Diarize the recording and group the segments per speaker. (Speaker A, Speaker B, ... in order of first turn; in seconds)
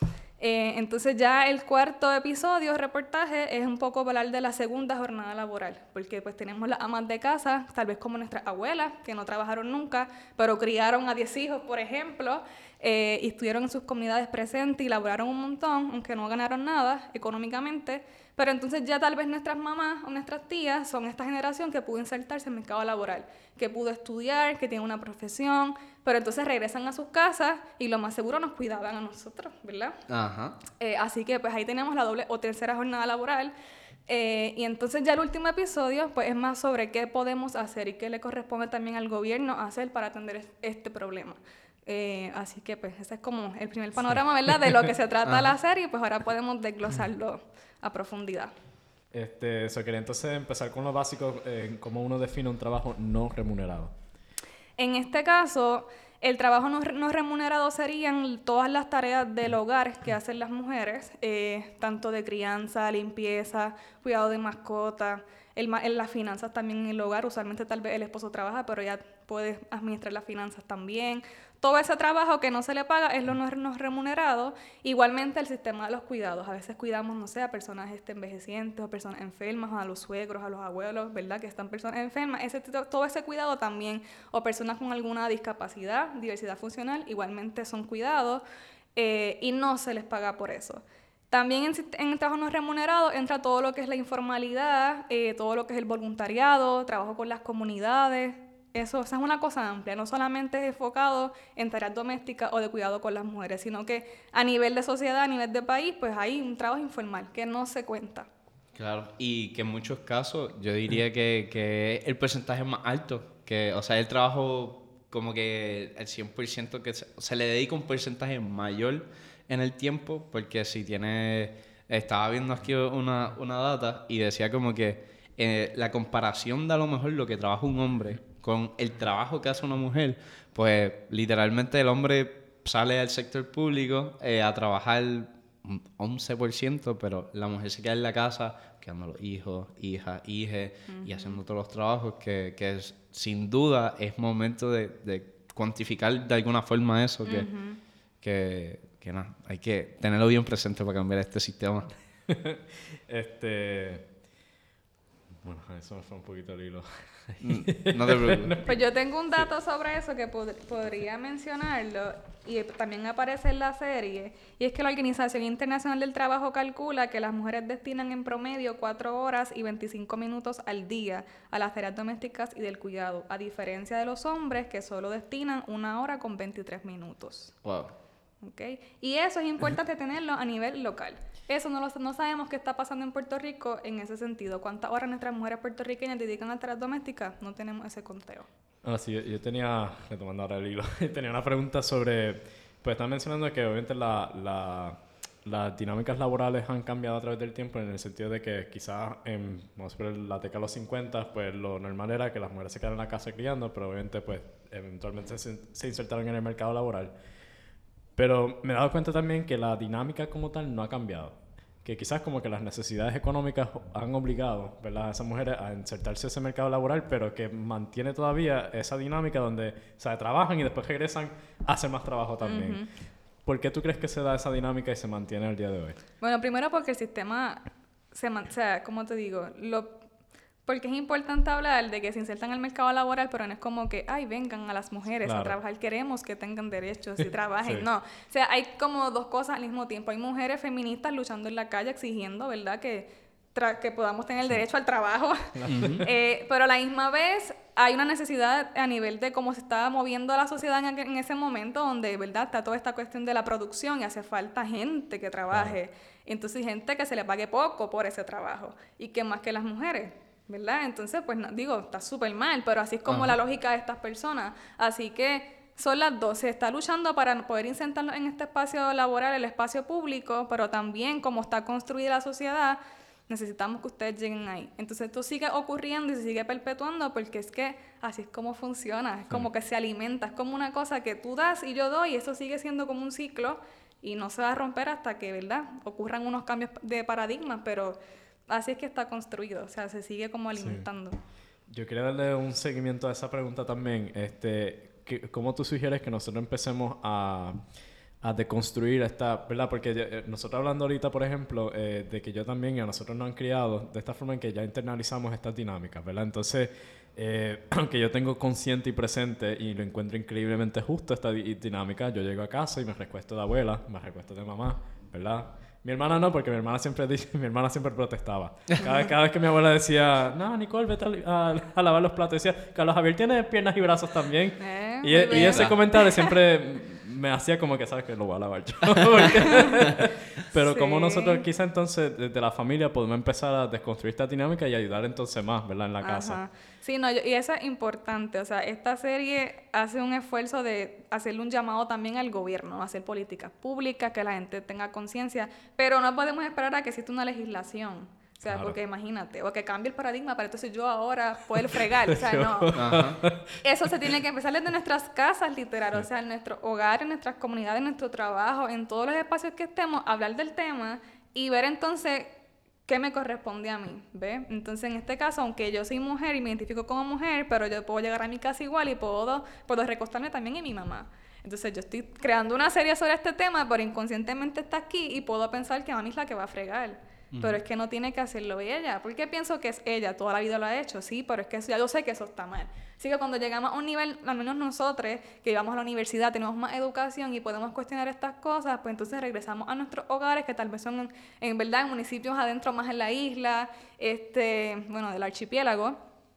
Speaker A: 0.4-30.0, 30.7-33.5, 34.1-48.5, 54.8-88.4, 89.0-108.3, 140.9-141.4, 147.2-147.8, 158.7-177.6, 178.4-188.5, 222.4-222.9, 226.2-230.0, 230.7-291.2, 324.6-326.3, 330.5-331.4, 336.0-362.3, 362.9-396.0
Speaker B: 30.1-30.6, 45.2-45.5, 108.7-147.5, 148.2-151.9, 157.4-158.6, 177.6-177.9, 245.7-246.1, 263.1-263.4, 325.3-325.8, 352.7-353.2, 377.3-377.6
Speaker C: 49.1-53.9, 152.3-154.1, 155.4-158.8, 188.8-207.1, 208.2-222.8, 223.4-226.0, 235.2-235.6, 245.5-246.1, 290.6-290.9, 291.7-297.6, 298.2-336.4, 348.4-348.8, 351.9-354.1